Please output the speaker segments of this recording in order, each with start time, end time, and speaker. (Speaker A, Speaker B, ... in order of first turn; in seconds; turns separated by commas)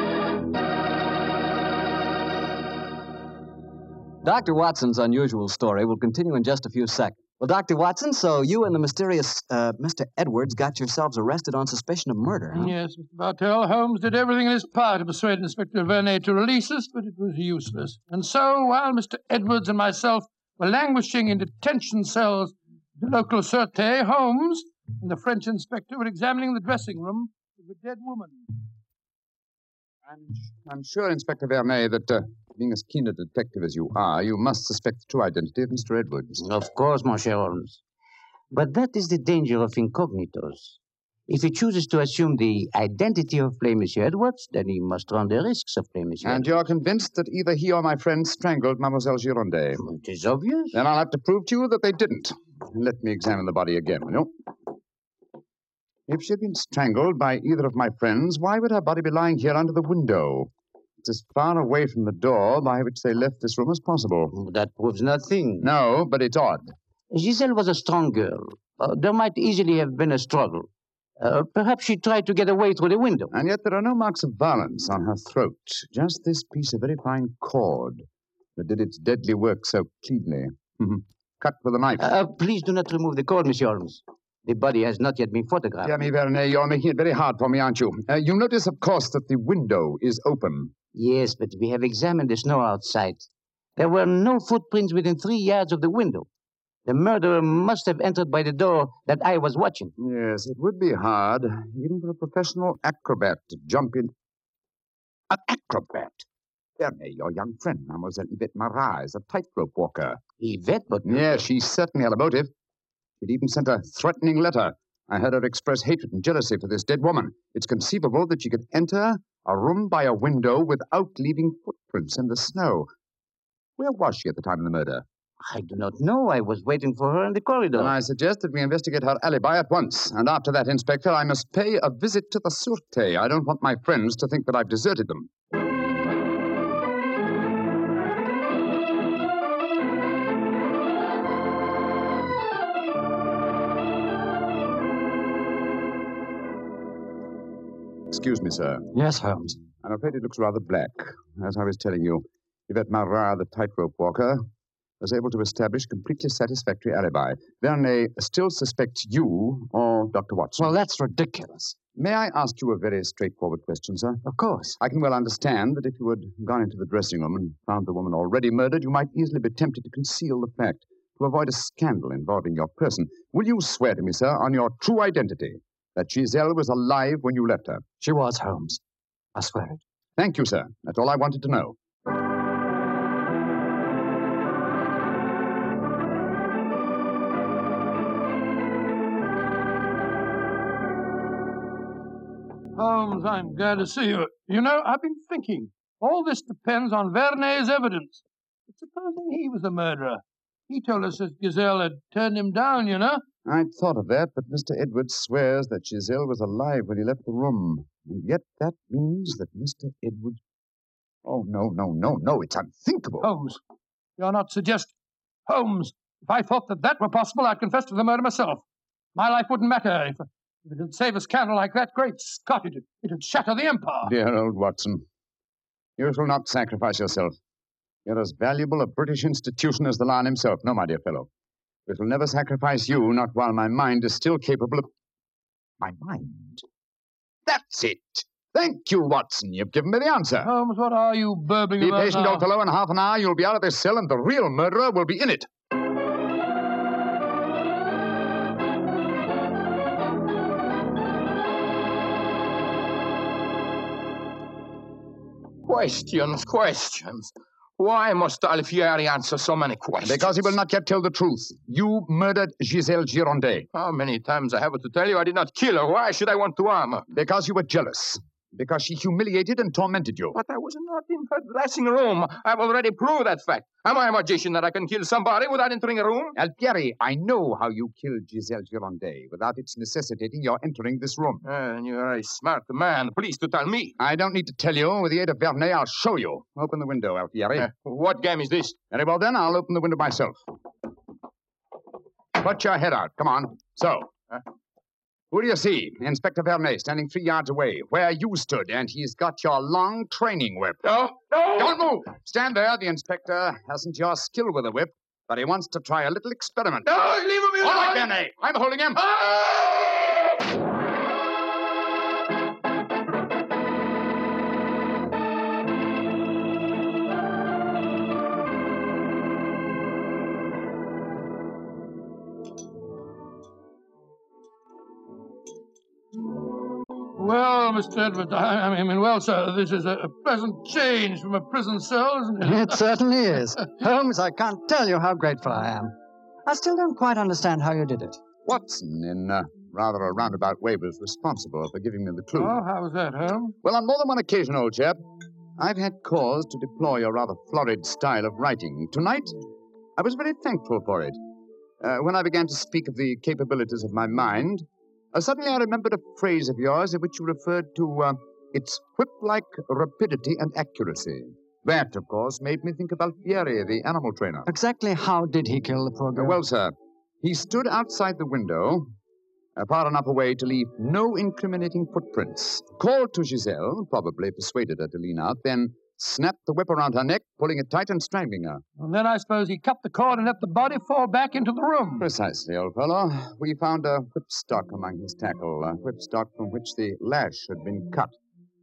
Speaker A: 4.2-12.7, Speaker B: 12.6-28.5, Speaker C: 30.1-36.4, Speaker D: 36.4-37.8, Speaker D: 38.5-46.5, Speaker C: 46.2-49.8, Speaker D: 49.8-50.8, Speaker C: 50.7-54.3, Speaker C: 56.1-60.5, Speaker C: 61.0-64.3, Speaker D: 64.3-65.7, Speaker C: 65.6-66.7, Speaker D: 67.1-70.7, Speaker D: 71.2-73.3, Speaker C: 73.3-78.0, Speaker C: 78.6-82.0, Speaker D: 82.0-86.0, Speaker C: 85.8-90.7, Speaker D: 90.9-93.3, Speaker D: 93.8-96.3, Speaker D: 96.9-99.9, Speaker C: 100.0-104.1, Speaker C: 105.3-106.2, Speaker C: 106.8-110.2, Speaker D: 110.4-111.4, Speaker C: 111.0-112.5, Speaker C: 113.2-122.9, Speaker C: 123.8-125.0, Speaker D: 125.4-127.9, Speaker C: 127.8-135.3, Speaker C: 148.1-148.9, Speaker E: 148.9-149.6, Speaker C: 149.8-154.4, Speaker C: 155.0-160.7, Speaker E: 160.6-161.8, Speaker C: 162.0-164.2, Speaker E: 164.2-164.8, Speaker C: 164.8-177.9, Speaker E: 178.0-178.8, Speaker E: 179.3-179.8, Speaker C: 180.2-181.8, Speaker B: 192.8-203.2, Speaker C: 203.5-210.4, Speaker C: 211.2-213.3, Speaker B: 213.2-213.6, Speaker B: 214.2-214.9, Speaker B: 215.5-218.6, Speaker B: 219.2-224.1, Speaker C: 224.0-225.0, Speaker C: 226.0-227.3, Speaker C: 228.1-231.3, Speaker C: 231.9-234.9, Speaker C: 235.8-236.6, Speaker C: 237.5-240.5, Speaker B: 240.4-242.5, Speaker C: 241.8-245.5, Speaker F: 255.7-260.5, Speaker C: 260.0-263.7, Speaker F: 263.7-267.1, Speaker C: 267.1-270.4, Speaker F: 270.3-276.4, Speaker C: 276.4-281.4, Speaker F: 281.4-283.9, Speaker C: 284.0-287.7, Speaker F: 287.6-288.8, Speaker C: 288.9-290.4, Speaker C: 292.4-294.1, Speaker C: 295.3-300.9, Speaker F: 300.9-301.9, Speaker C: 301.6-306.9, Speaker F: 306.9-308.1, Speaker C: 307.6-309.0, Speaker F: 308.9-309.9, Speaker B: 327.2-332.8, Speaker E: 332.4-335.9, Speaker E: 336.5-338.2, Speaker C: 338.4-342.6, Speaker B: 342.4-343.6, Speaker C: 343.6-345.0, Speaker C: 345.6-349.4, Speaker C: 350.0-351.2, Speaker C: 351.8-364.5, Speaker E: 364.5-366.4, Speaker C: 366.1-368.9, Speaker C: 369.6-378.6, Speaker B: 378.8-382.1, Speaker C: 382.0-388.2